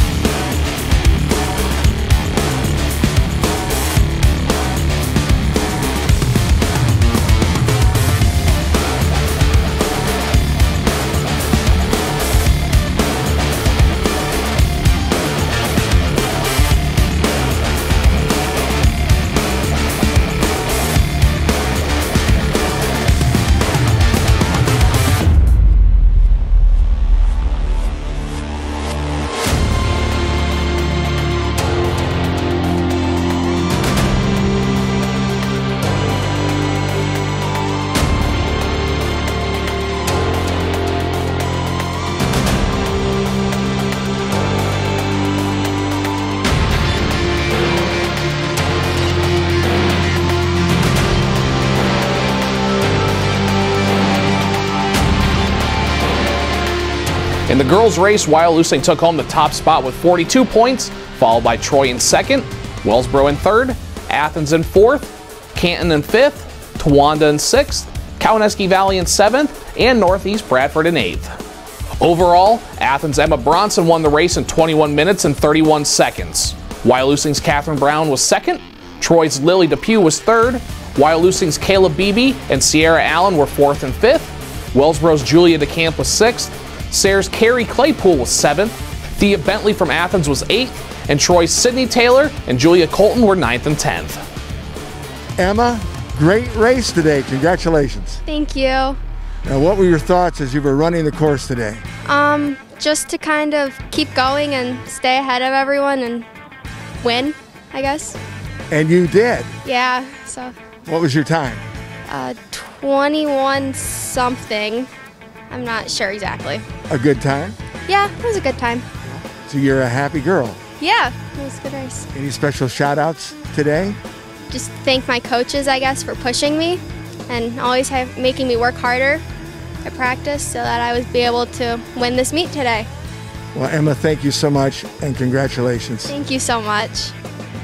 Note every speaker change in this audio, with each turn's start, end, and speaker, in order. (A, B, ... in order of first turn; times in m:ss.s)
0:57.5-1:11.3 A
1:12.0-1:34.2 A
1:35.4-1:38.2 B
1:38.3-1:39.0 C
1:39.4-1:41.8 B
1:42.0-1:46.3 C
1:47.0-1:48.2 C
1:48.7-1:49.5 B
1:49.6-1:50.5 C
1:50.8-1:51.6 B
1:52.1-1:54.9 C
1:55.5-1:56.6 C
1:56.9-1:57.6 B
1:57.9-1:58.8 C
1:59.4-2:00.6 B
2:00.8-2:02.1 C
2:02.1-2:04.0 B
2:04.5-2:09.2 C
2:09.8-2:12.9 C
2:13.5-2:16.1 B
2:16.1-2:17.1 C